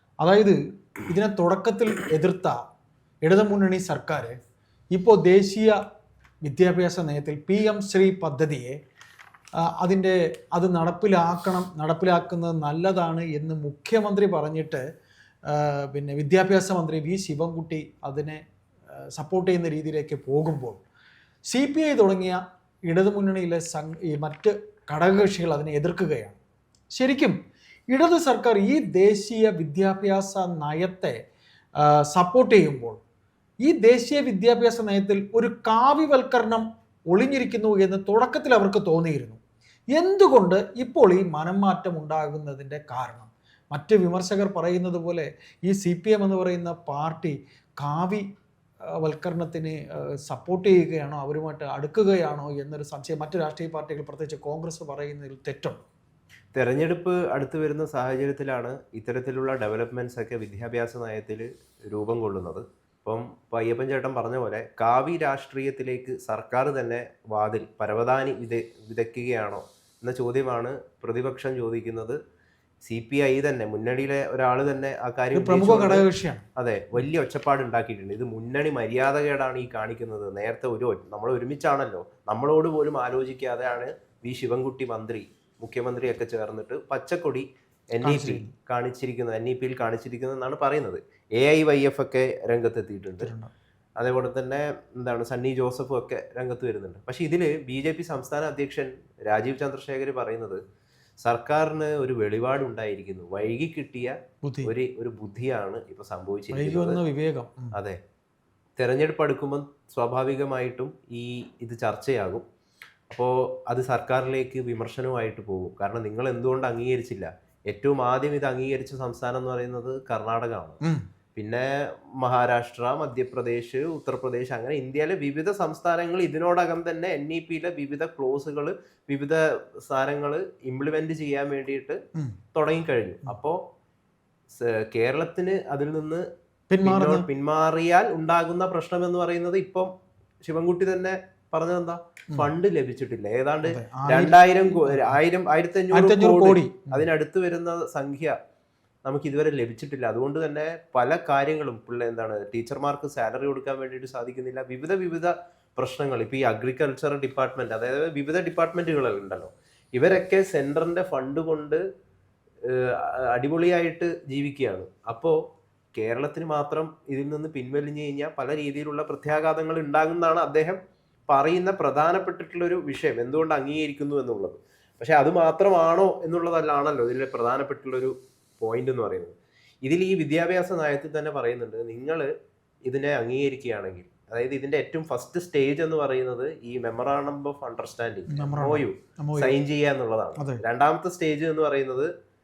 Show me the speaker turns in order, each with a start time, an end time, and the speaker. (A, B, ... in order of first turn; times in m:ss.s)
0:00.2-0:02.6 A
0:03.2-0:04.4 A
0:04.9-0:05.8 A
0:06.4-0:08.8 A
0:09.8-0:14.8 A
0:15.5-0:18.4 A
0:18.9-0:20.8 A
0:21.5-0:26.4 A
0:27.0-0:27.4 A
0:27.9-0:31.2 A
0:31.8-0:33.0 A
0:33.7-0:39.4 A
0:39.9-0:48.3 A
0:49.0-0:55.8 A
0:56.6-1:12.2 B
1:12.9-1:33.3 B
1:15.3-1:16.4 A
1:28.0-1:28.5 A
1:33.2-1:33.5 A
1:34.0-1:40.6 B
1:41.2-1:47.0 B
1:44.4-1:44.7 A
1:46.5-1:47.7 A
1:48.8-1:52.4 B
1:53.1-2:00.8 B
2:01.4-2:12.0 B
2:12.5-2:13.6 B
2:14.5-2:16.3 B
2:16.7-2:17.3 A
2:16.8-2:19.9 B
2:20.4-2:28.4 B
2:23.6-2:25.2 A
2:25.9-2:27.1 A
2:29.0-2:41.8 B
2:42.7-2:45.4 B
2:46.0-2:50.8 B
2:51.3-3:02.3 B
3:02.8-3:12.1 B
3:08.3-3:09.6 A